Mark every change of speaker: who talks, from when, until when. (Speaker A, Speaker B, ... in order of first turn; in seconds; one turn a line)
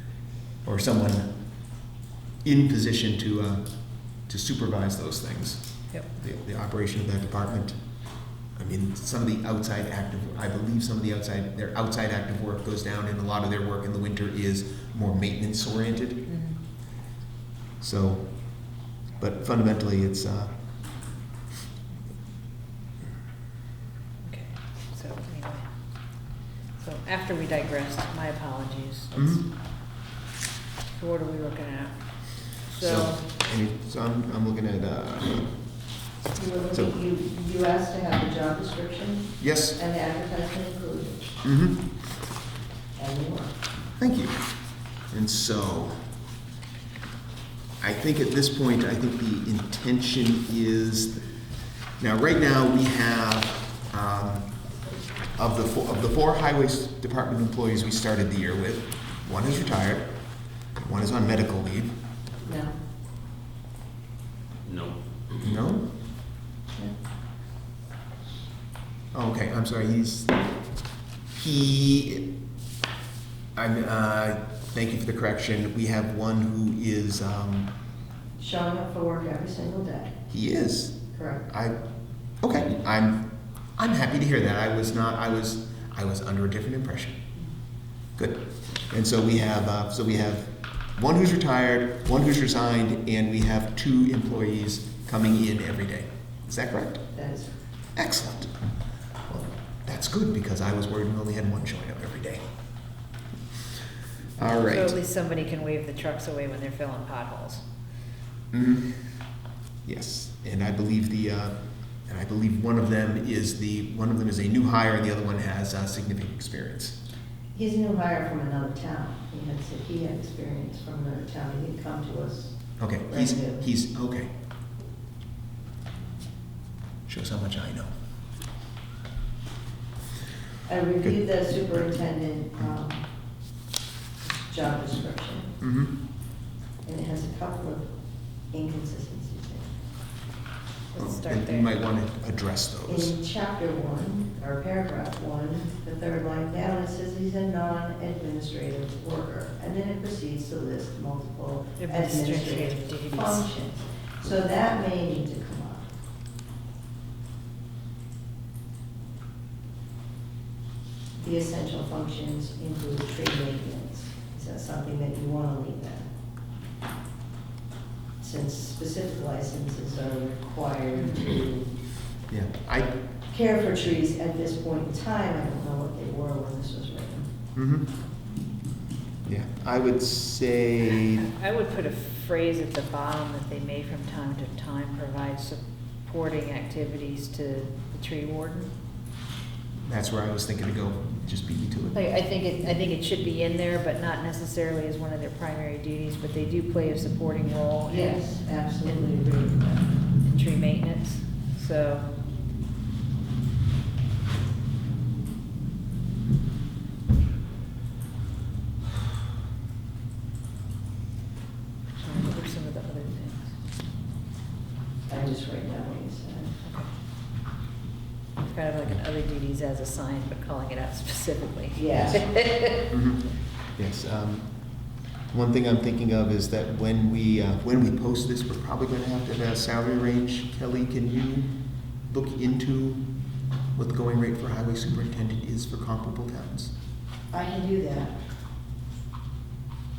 Speaker A: 0.6-1.3
Speaker A: 2.4-3.6
Speaker A: 4.3-5.6
Speaker A: 6.2-7.8
Speaker A: 8.6-16.3
Speaker B: 16.3-16.6
Speaker A: 17.8-18.2
Speaker A: 19.2-20.5
Speaker B: 24.2-25.7
Speaker B: 26.8-29.5
Speaker A: 29.1-29.5
Speaker B: 30.9-32.0
Speaker B: 32.6-33.2
Speaker A: 32.8-35.5
Speaker C: 36.4-41.4
Speaker A: 39.4-39.8
Speaker A: 41.4-41.9
Speaker C: 43.0-43.5
Speaker A: 44.0-44.4
Speaker A: 45.1-46.0
Speaker A: 47.8-51.2
Speaker A: 52.0-54.5
Speaker A: 55.4-60.1
Speaker A: 60.8-62.0
Speaker C: 62.4-62.7
Speaker A: 65.4-65.8
Speaker A: 69.1-70.4
Speaker A: 71.3-72.3
Speaker A: 73.6-77.7
Speaker C: 78.4-80.1
Speaker A: 80.3-81.0
Speaker C: 81.1-81.5
Speaker A: 81.5-81.8
Speaker A: 82.4-87.2
Speaker A: 88.2-97.0
Speaker C: 97.1-97.5
Speaker A: 98.0-98.6
Speaker A: 99.3-102.5
Speaker A: 104.4-105.0
Speaker B: 104.4-107.6
Speaker A: 108.5-109.1
Speaker A: 109.9-111.5
Speaker A: 112.1-117.0
Speaker C: 117.5-123.6
Speaker A: 122.8-124.3
Speaker A: 127.1-127.9
Speaker C: 130.7-133.1
Speaker C: 134.3-135.6
Speaker A: 135.6-135.9
Speaker C: 136.8-137.9
Speaker C: 138.5-139.7
Speaker B: 140.9-141.8
Speaker A: 141.0-143.1
Speaker C: 142.9-155.9
Speaker B: 151.8-153.4
Speaker C: 161.2-166.1
Speaker C: 168.2-171.7
Speaker B: 170.9-171.2
Speaker A: 172.3-172.9
Speaker C: 173.3-177.3
Speaker A: 177.6-177.9
Speaker A: 179.3-181.3
Speaker B: 181.0-188.7
Speaker A: 189.9-192.0
Speaker B: 191.9-198.2
Speaker C: 197.9-199.9
Speaker B: 200.2-202.2
Speaker B: 212.0-213.5
Speaker C: 215.1-216.5
Speaker B: 216.6-216.9
Speaker B: 218.4-222.9
Speaker C: 221.8-222.2
Speaker A: 221.9-222.3
Speaker A: 222.9-223.2
Speaker A: 223.8-224.5
Speaker A: 225.3-231.5
Speaker A: 232.1-233.1
Speaker A: 233.8-236.7
Speaker C: 237.3-238.2